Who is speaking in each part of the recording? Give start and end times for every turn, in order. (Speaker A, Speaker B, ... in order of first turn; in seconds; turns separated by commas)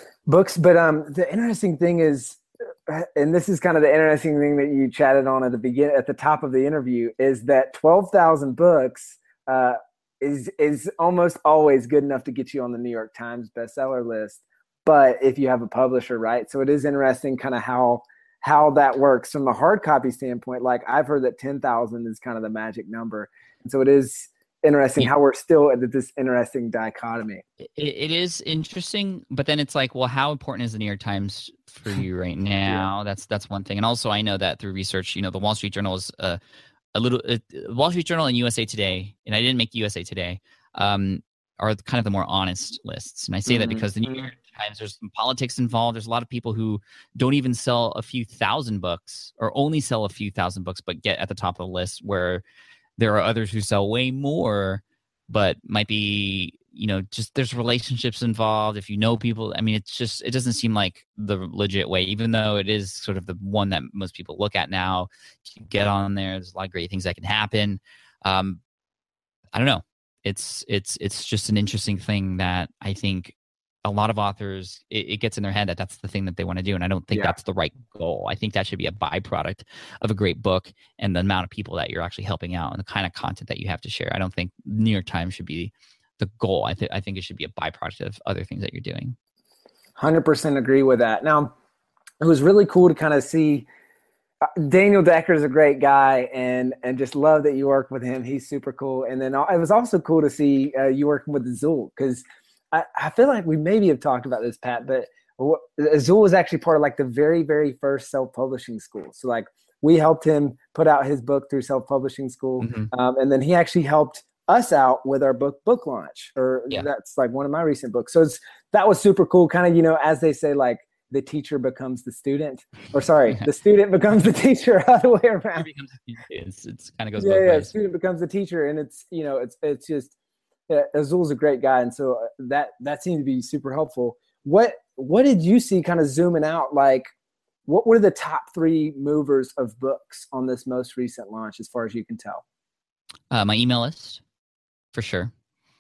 Speaker A: 0.3-27.4, Speaker B: 27.6-36.4, Speaker B: 36.9-52.4, Speaker A: 43.5-43.9, Speaker B: 53.0-68.6, Speaker B: 69.5-89.2, Speaker A: 90.0-91.5, Speaker A: 92.2-93.7, Speaker A: 94.5-125.7, Speaker B: 112.6-112.9, Speaker B: 125.6-127.7, Speaker A: 127.2-130.1, Speaker A: 130.7-137.1, Speaker A: 137.7-142.4, Speaker B: 143.3-144.2, Speaker B: 144.9-145.3